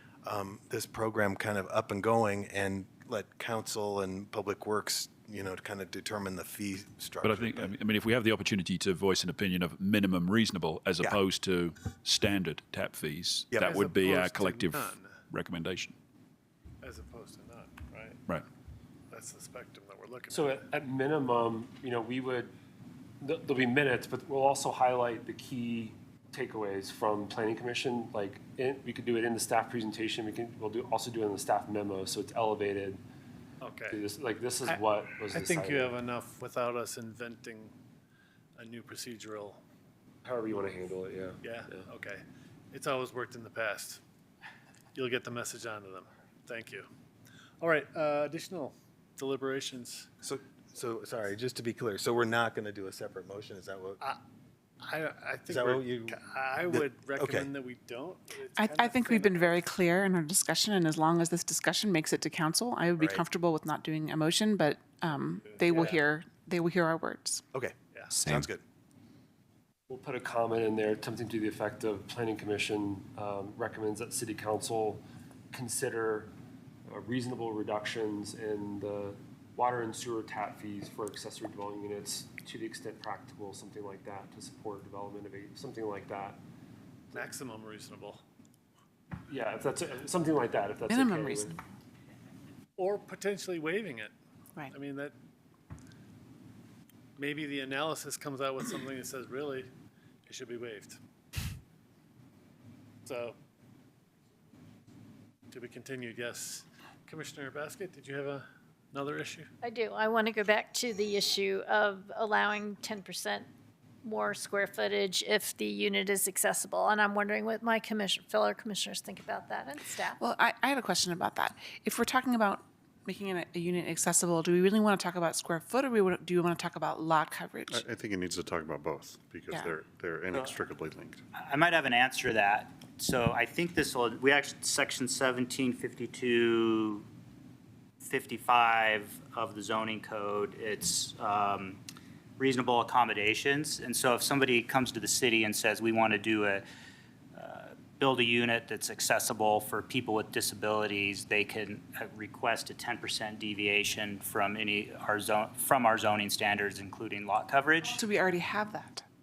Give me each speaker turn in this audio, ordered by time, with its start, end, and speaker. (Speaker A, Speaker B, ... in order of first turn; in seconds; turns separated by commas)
Speaker A: 0.2-7.7, Speaker B: 7.2-15.9, Speaker A: 13.5-13.8, Speaker C: 13.6-15.2, Speaker C: 16.8-18.2, Speaker C: 19.1-20.7, Speaker D: 20.3-22.5, Speaker D: 23.2-33.0, Speaker C: 33.6-34.0, Speaker D: 33.9-36.0, Speaker C: 35.3-37.7, Speaker C: 38.6-39.6, Speaker D: 40.2-41.8, Speaker C: 41.4-44.0, Speaker C: 44.9-46.9, Speaker C: 47.6-50.1, Speaker A: 50.2-54.0, Speaker C: 54.8-59.7, Speaker A: 55.5-57.5, Speaker E: 58.5-67.4, Speaker A: 63.0-63.2, Speaker C: 65.5-66.0, Speaker A: 67.5-68.6, Speaker E: 68.1-68.4, Speaker D: 69.9-76.3, Speaker D: 76.9-86.4, Speaker C: 87.1-88.2, Speaker D: 89.3-91.6, Speaker E: 90.9-91.6, Speaker C: 92.8-94.1, Speaker C: 94.7-95.1, Speaker C: 97.2-99.7, Speaker C: 100.3-101.0, Speaker C: 103.0-103.4, Speaker C: 105.5-109.5, Speaker F: 109.6-113.5, Speaker F: 114.0-120.2, Speaker E: 120.2-127.8, Speaker G: 127.7-131.2, Speaker H: 131.3-137.1, Speaker H: 138.0-141.8, Speaker H: 142.4-146.6, Speaker H: 147.3-158.0, Speaker E: 157.9-159.0